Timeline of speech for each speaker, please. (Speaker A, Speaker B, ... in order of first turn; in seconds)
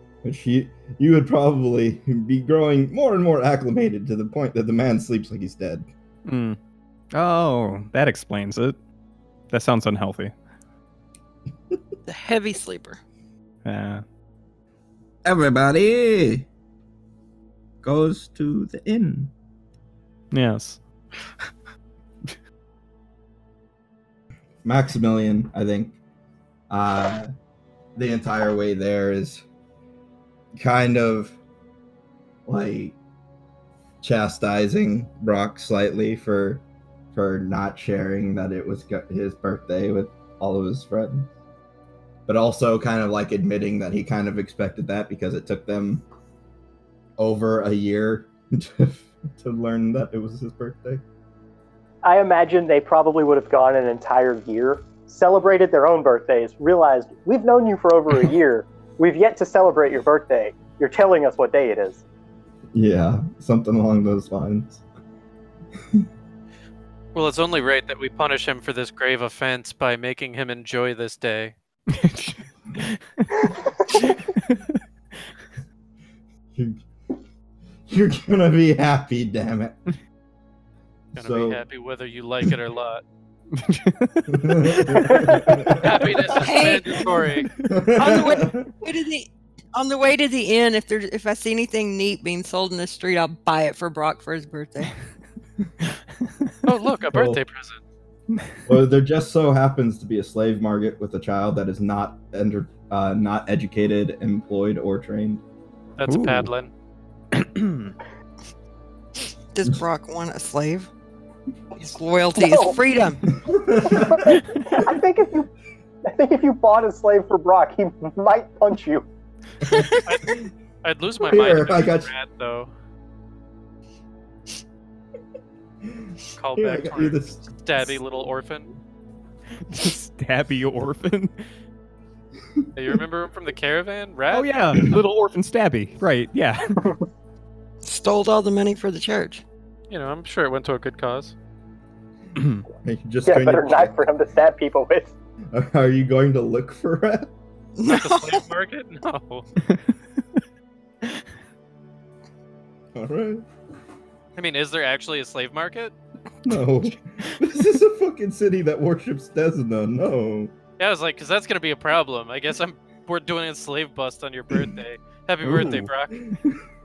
Speaker A: 0.2-5.9, 15.2-16.5, 17.8-19.3, 24.6-26.0, 26.7-27.3, 27.9-29.4, 30.6-31.4, 32.5-33.0, 34.0-41.3, 42.3-46.0, 47.2-51.0, 62.7-64.8, 76.5-76.8, 77.9-79.8, 81.2-81.6, 84.3-86.4, 87.6-88.7, 97.1-97.4, 98.7-105.4, 113.3-114.4, 121.2-122.1, 126.5-128.0, 142.8-143.9, 145.5-147.3, 152.9-153.4, 156.4-160.5
Speaker B: 6.2-6.6, 7.1-8.8, 9.5-10.3, 13.6-14.0, 20.3-20.8, 71.9-73.2, 74.0-74.6, 83.5-85.3, 106.0-106.5, 107.4-107.9, 129.7-131.3, 134.3-136.8, 165.4-165.9
Speaker C: 12.1-13.0, 86.3-87.3, 87.9-94.9, 109.5-110.9, 111.8-113.3, 119.6-120.4, 137.8-139.4, 147.8-148.4
Speaker D: 52.0-62.0, 112.3-112.8, 113.8-115.5, 116.0-119.1, 143.2-145.1
Speaker E: 67.1-71.5, 81.2-83.0, 85.1-87.5, 96.6-97.8, 106.0-106.7, 120.1-122.7, 126.4-128.7, 132.8-134.8, 139.9-141.3, 147.9-149.4, 154.3-155.9, 160.8-166.3